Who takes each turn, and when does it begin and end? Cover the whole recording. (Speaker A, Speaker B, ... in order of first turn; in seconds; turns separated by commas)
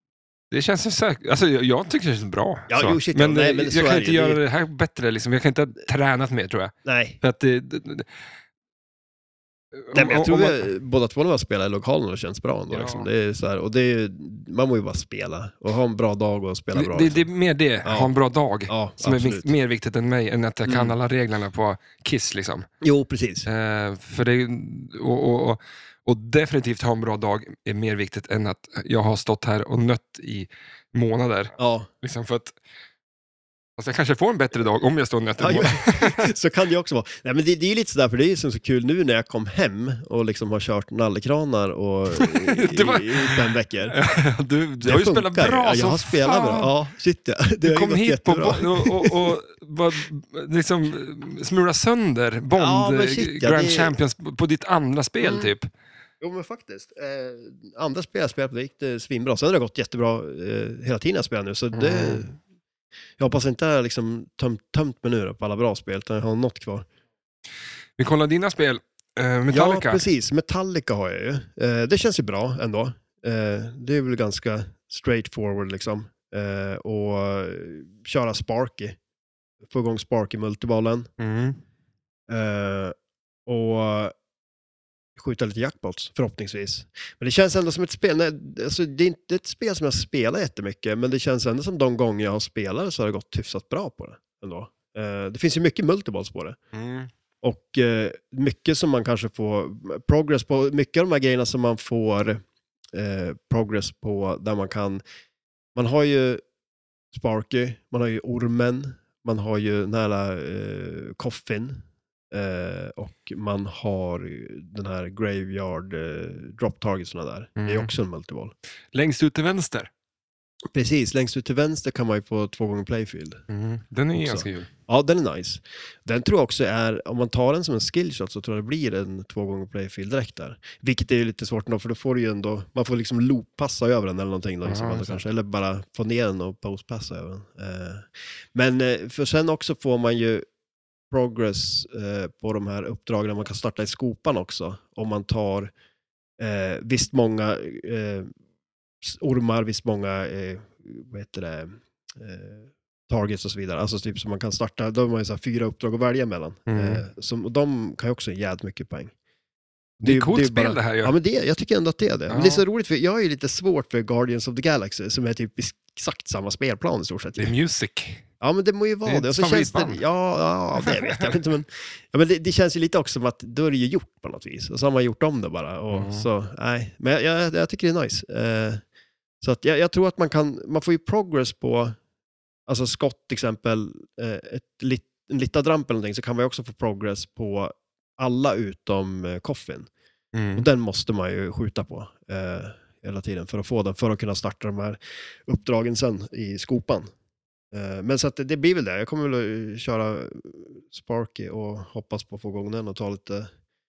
Speaker A: 0.5-8.1, Speaker B: 2.7-4.4, Speaker B: 6.8-7.2, Speaker A: 9.8-10.7, Speaker B: 9.9-17.2, Speaker A: 12.7-13.1, Speaker A: 16.7-22.7, Speaker B: 17.8-18.1, Speaker B: 18.7-19.5, Speaker B: 20.6-20.9, Speaker B: 22.8-23.5, Speaker A: 23.4-32.6, Speaker B: 31.6-31.9, Speaker A: 33.8-36.3, Speaker B: 35.4-44.0, Speaker A: 42.1-46.7, Speaker B: 44.8-49.4, Speaker A: 47.6-55.7, Speaker B: 52.5-53.9, Speaker B: 55.2-55.5, Speaker B: 56.2-62.4, Speaker A: 61.7-62.3, Speaker B: 63.2-66.9, Speaker A: 68.0-70.0, Speaker B: 69.5-79.0, Speaker B: 79.7-81.1, Speaker A: 81.2-81.6, Speaker B: 82.3-82.9, Speaker B: 83.5-84.1, Speaker B: 85.2-96.6, Speaker A: 96.7-97.1, Speaker B: 97.4-102.4, Speaker B: 102.9-105.0, Speaker B: 105.7-106.4, Speaker B: 107.1-118.5, Speaker A: 117.6-117.9, Speaker A: 118.9-119.9, Speaker B: 120.7-123.4, Speaker A: 123.5-124.7, Speaker B: 124.2-140.4, Speaker A: 134.6-135.2, Speaker B: 141.1-145.7, Speaker B: 146.4-148.3, Speaker B: 149.0-159.1, Speaker A: 156.7-157.0, Speaker B: 160.0-167.5, Speaker A: 160.0-161.1, Speaker A: 162.3-162.6, Speaker A: 167.4-168.2, Speaker B: 168.4-178.8, Speaker A: 169.1-170.0, Speaker A: 170.8-171.3, Speaker A: 175.9-176.3, Speaker B: 179.4-181.9, Speaker B: 182.7-189.9, Speaker A: 190.3-190.7, Speaker B: 190.6-197.1, Speaker B: 197.7-203.5